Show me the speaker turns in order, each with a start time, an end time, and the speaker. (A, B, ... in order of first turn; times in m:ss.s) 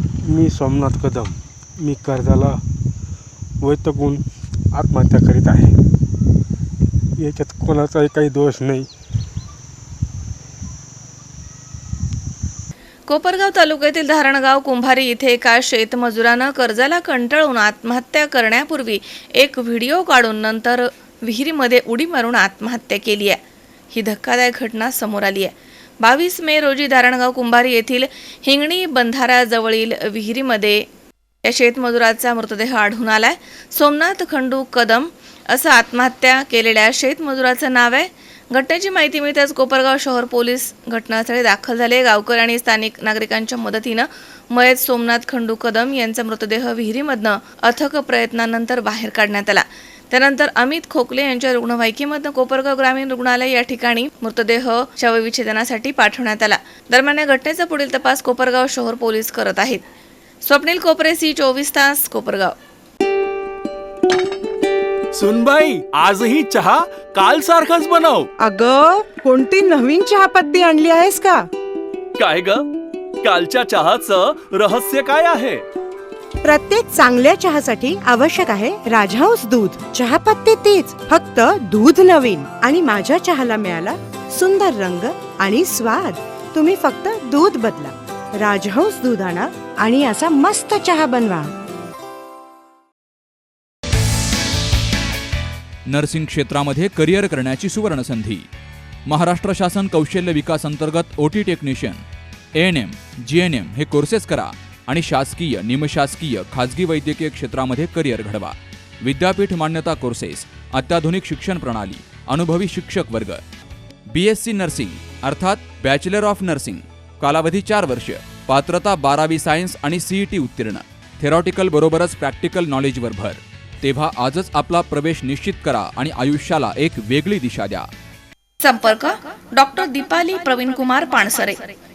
0:00.3-0:02.6 A
0:03.6-0:05.7 A
0:07.2-0:08.9 A
0:13.1-0:23.4 B
0:23.9-0:30.9 B
0:31.4-0:59.8 B
1:00.4-1:02.6 B
1:05.1-1:08.3 C
1:08.4-1:11.5 D
1:12.2-1:12.7 C
1:13.2-1:15.6 C
1:16.4-1:31.5 D
1:35.9-1:38.4 E
1:39.1-1:42.0 E
1:42.6-1:53.4 E
1:54.1-2:07.9 E
2:08.6-2:11.6 B